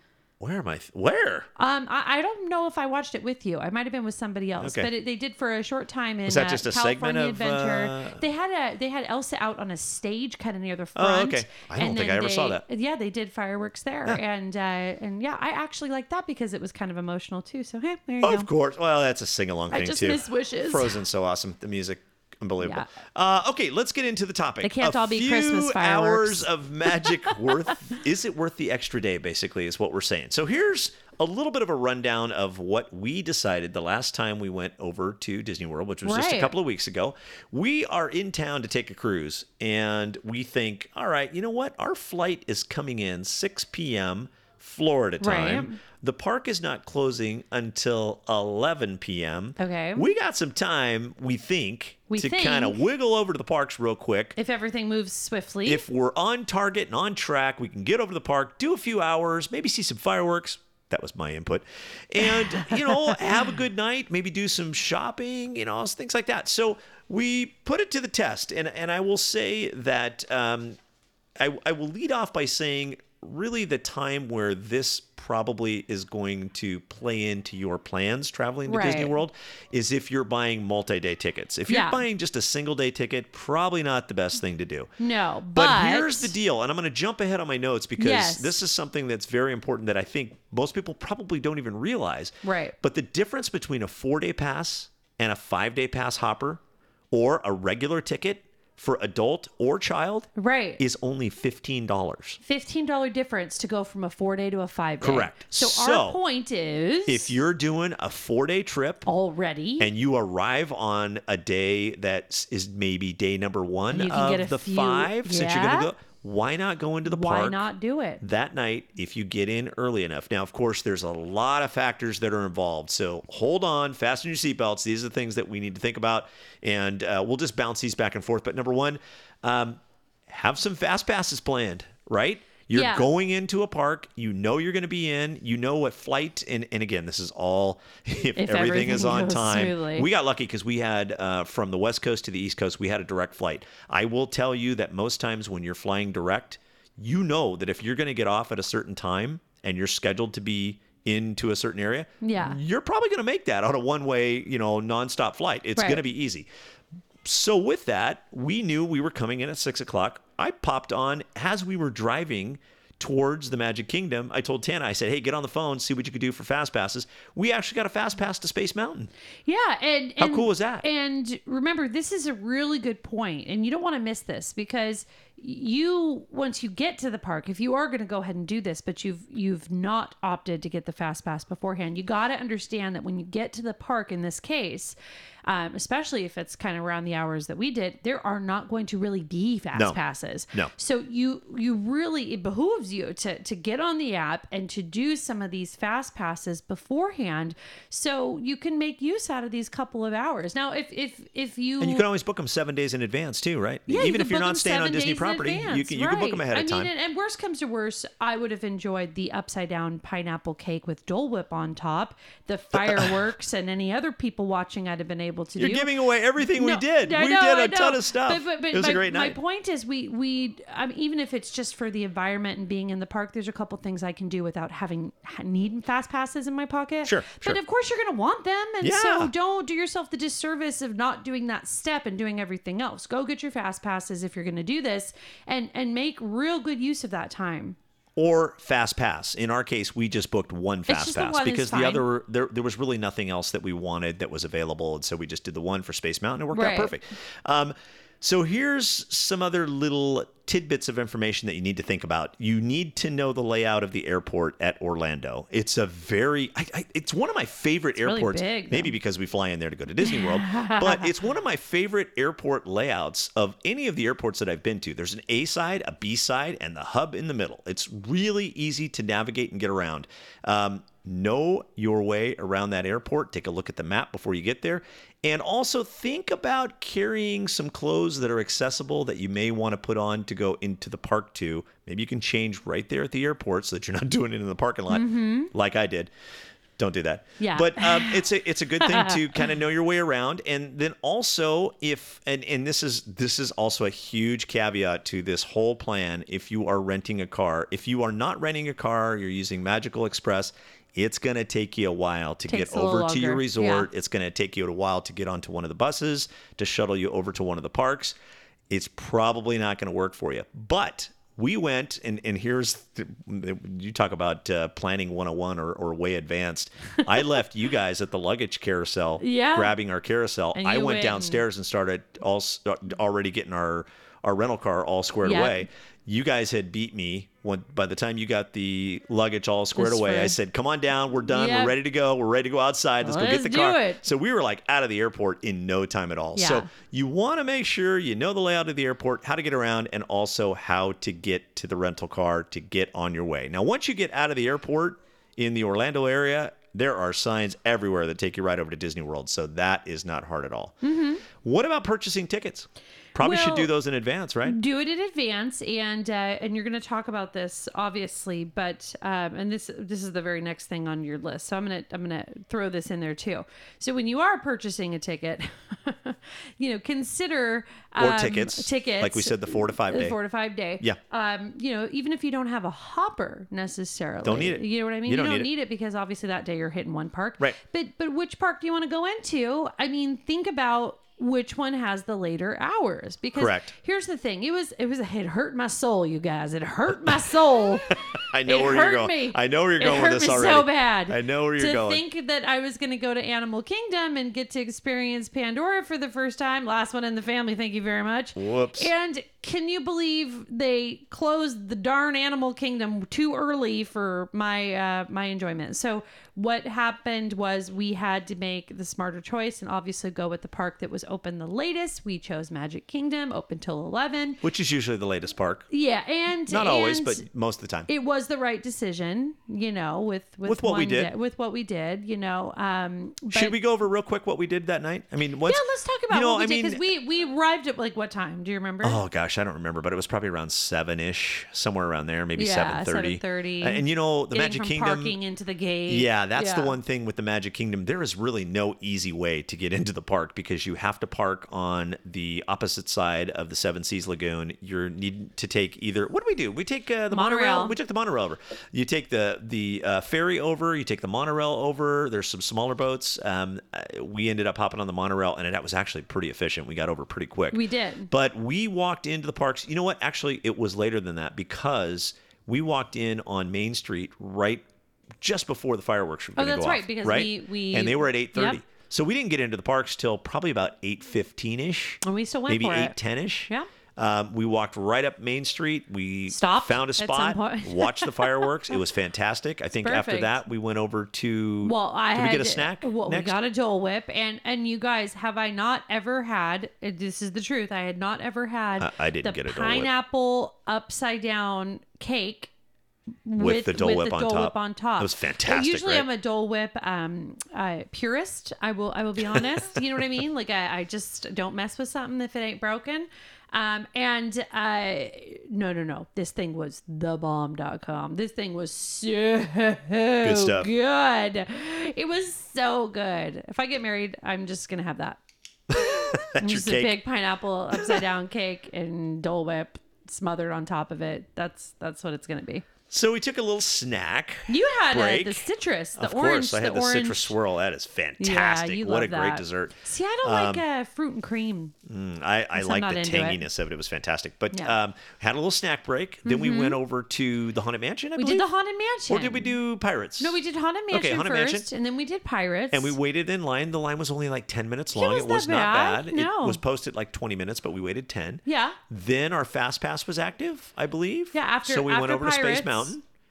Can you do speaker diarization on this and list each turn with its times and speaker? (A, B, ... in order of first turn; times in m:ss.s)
0:00.4-0:01.5 A
0:01.6-0:18.5 B
0:04.6-0:04.9 A
0:06.2-0:08.2 A
0:11.0-0:12.6 A
0:18.2-0:54.4 A
0:19.7-0:21.0 B
0:22.6-0:22.9 B
0:24.6-0:27.5 B
0:36.0-0:36.5 B
0:45.2-0:45.8 B
0:49.6-0:50.1 B
0:52.1-0:52.8 B
0:54.4-0:55.8 B
0:55.6-1:10.8 A
1:02.3-1:03.3 B
1:11.4-1:24.9 A
1:18.6-1:19.2 B
1:21.7-1:22.0 B
1:25.0-1:26.3 B
1:25.5-1:42.4 A
1:28.0-1:28.6 B
1:32.4-1:32.7 B
1:40.4-1:40.8 B
1:42.4-1:47.3 B
1:45.0-1:46.2 A
1:47.0-1:49.1 A
1:49.0-1:49.9 B
1:49.8-1:57.7 A
1:53.9-1:55.9 B
1:57.0-1:58.2 B
1:58.2-2:36.5 A
2:12.7-2:13.1 B
2:18.4-2:20.1 B
2:32.2-2:32.6 B
2:35.8-2:36.0 B
2:37.2-2:49.1 A
2:49.5-3:22.0 B
2:50.2-2:50.9 A
3:09.7-3:10.0 A
3:21.8-3:26.9 A
3:23.9-3:57.8 B
3:32.7-3:33.1 A
3:35.6-3:39.4 A
3:47.0-3:47.6 A
3:48.8-3:49.3 A
3:58.2-4:46.1 A
4:00.9-4:02.0 B
4:06.5-4:07.0 B
4:18.0-4:18.9 B
4:20.0-4:21.1 B
4:44.9-4:45.5 B
4:46.8-5:08.2 A
4:47.4-4:48.3 B
4:48.8-4:49.5 B
5:02.5-5:03.9 B
5:08.7-5:50.8 A
5:19.2-5:19.7 B
5:20.5-5:21.4 B
5:25.2-5:25.6 B
5:29.8-5:30.4 B
5:31.3-5:31.7 B
5:33.0-5:34.0 B
5:36.3-5:36.7 B
5:50.8-5:51.2 B
5:51.3-5:54.6 A
5:53.2-5:53.7 B
5:54.4-6:54.4 B
6:08.0-6:10.2 A
6:14.2-6:15.5 A
6:23.4-6:23.7 A
6:26.9-6:27.3 A
6:27.9-6:32.0 A
6:38.4-6:38.9 A
6:54.4-6:55.7 A
6:55.7-6:57.2 B
6:56.5-6:57.9 A
6:57.9-7:03.6 B
7:00.4-7:01.1 A
7:03.3-7:06.8 A
7:05.4-7:09.0 B
7:08.8-7:15.2 A
7:12.4-7:16.8 B
7:15.9-7:44.6 A
7:27.1-7:27.8 B
7:37.5-7:38.1 B
7:45.2-8:03.4 A
7:46.4-7:48.6 B
7:52.0-7:53.0 B
7:56.3-7:58.5 B
7:59.8-8:00.4 B
8:01.6-8:12.5 B
8:08.8-8:09.9 A
8:13.2-8:35.2 B
8:13.4-8:16.1 A
8:19.3-8:19.8 A
8:30.2-8:30.7 A
8:35.7-8:37.0 A
8:35.8-8:42.6 B
8:37.7-8:38.0 A
8:42.9-8:50.6 A
8:44.5-8:47.3 B
8:48.2-8:51.7 B
8:51.8-8:58.5 A
8:52.5-8:53.4 B
8:56.2-8:56.8 B
8:58.2-8:59.6 B
8:59.1-9:00.4 A
9:00.2-9:03.0 B
9:00.9-9:01.7 A
9:02.7-9:13.0 A
9:04.9-9:06.6 B
9:08.4-9:08.8 B
9:11.3-9:12.9 B